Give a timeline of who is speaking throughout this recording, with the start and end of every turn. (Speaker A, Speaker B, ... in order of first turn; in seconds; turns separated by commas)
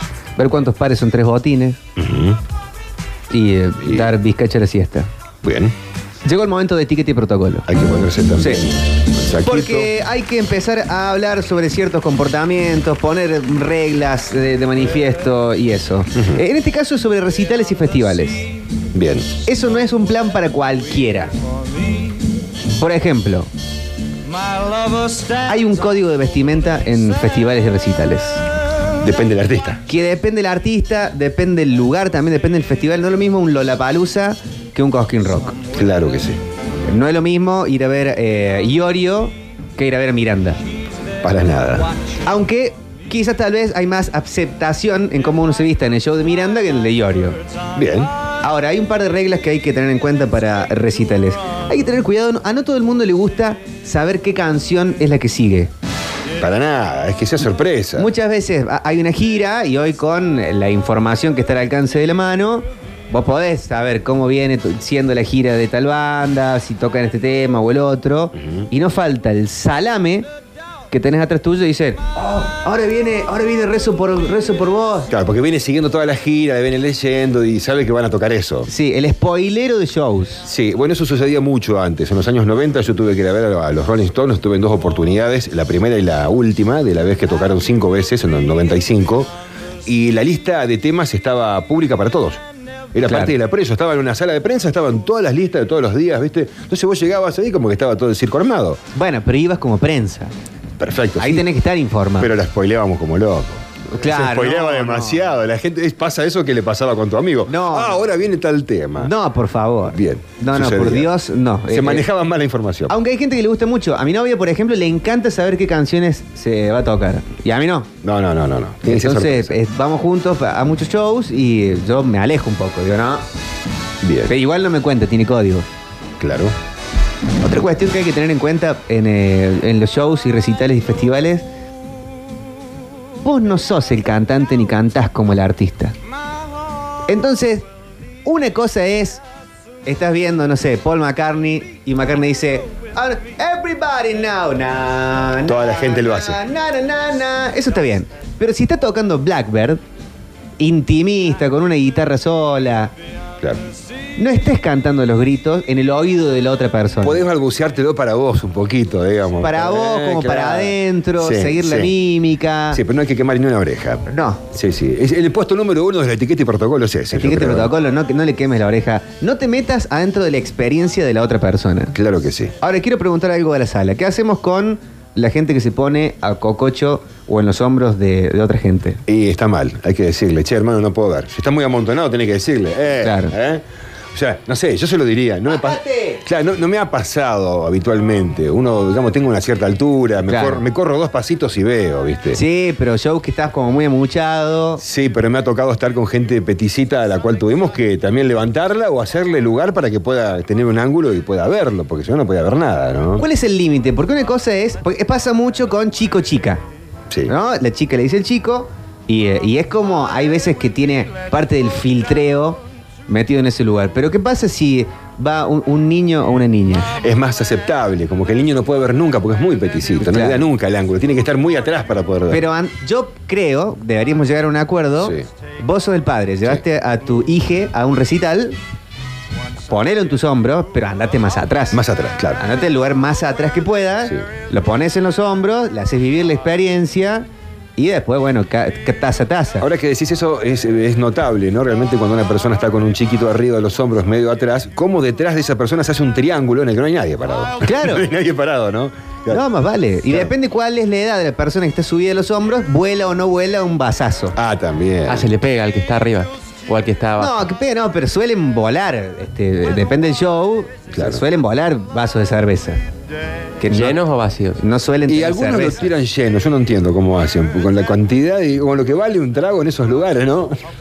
Speaker A: 0.4-1.8, Speaker B: 2.0-2.4, Speaker A: 3.3-5.1, Speaker B: 3.8-4.1, Speaker B: 5.4-5.7, Speaker A: 6.2-7.7, Speaker B: 7.7-9.9, Speaker A: 9.4-18.5, Speaker B: 18.9-19.3, Speaker A: 19.4-21.3, Speaker A: 22.8-23.5, Speaker A: 25.4-28.4, Speaker B: 29.0-29.8, Speaker A: 29.9-35.5, Speaker B: 35.8-36.4, Speaker A: 36.9-40.6, Speaker B: 41.2-41.9, Speaker A: 42.2-47.4, Speaker B: 47.7-48.1, Speaker A: 48.4-55.7, Speaker B: 56.4-58.1, Speaker A: 58.0-70.3, Speaker A: 70.9-75.1, Speaker B: 75.1-78.7, Speaker A: 78.7-80.5, Speaker B: 80.5-89.3, Speaker B: 89.8-92.4, Speaker B: 92.9-98.8, Speaker A: 93.0-93.3, Speaker A: 98.9-100.3, Speaker B: 100.8-101.5, Speaker A: 101.2-102.3, Speaker B: 102.2-109.1, Speaker A: 103.9-105.2, Speaker A: 107.5-108.0, Speaker A: 109.0-112.0, Speaker B: 109.9-111.1, Speaker B: 111.7-112.9, Speaker A: 112.9-117.9, Speaker B: 118.0-119.6, Speaker A: 118.8-123.2, Speaker B: 124.0-124.3, Speaker A: 124.3-125.7, Speaker B: 126.2-126.5, Speaker A: 127.4-131.4, Speaker A: 133.2-135.9, Speaker A: 137.1-137.7, Speaker A: 138.2-139.2, Speaker A: 139.8-149.8, Speaker B: 145.4-146.4, Speaker A: 150.6-152.9, Speaker A: 154.2-157.2, Speaker B: 157.0-161.9, Speaker A: 159.4-162.8, Speaker B: 162.7-167.7, Speaker A: 164.1-164.4, Speaker A: 167.1-171.9, Speaker B: 171.9-172.5, Speaker A: 172.6-179.0, Speaker B: 179.1-183.6, Speaker A: 183.0-183.3, Speaker B: 184.1-192.4, Speaker A: 185.5-186.2, Speaker A: 190.3-190.6, Speaker A: 192.3-194.8, Speaker B: 194.8-203.2, Speaker A: 203.2-206.6, Speaker A: 207.3-216.8, Speaker B: 217.0-222.4, Speaker A: 220.0-220.4, Speaker A: 222.3-228.6, Speaker A: 229.7-231.8, Speaker B: 231.7-232.4, Speaker A: 232.4-239.7, Speaker B: 239.6-249.4, Speaker A: 247.6-248.0, Speaker A: 249.3-254.3, Speaker B: 250.1-250.3, Speaker B: 254.3-255.3, Speaker C: 255.1-257.3, Speaker A: 257.1-262.8, Speaker B: 260.9-261.2, Speaker A: 263.6-264.0, Speaker C: 263.7-264.6, Speaker A: 264.6-265.9, Speaker B: 265.1-270.6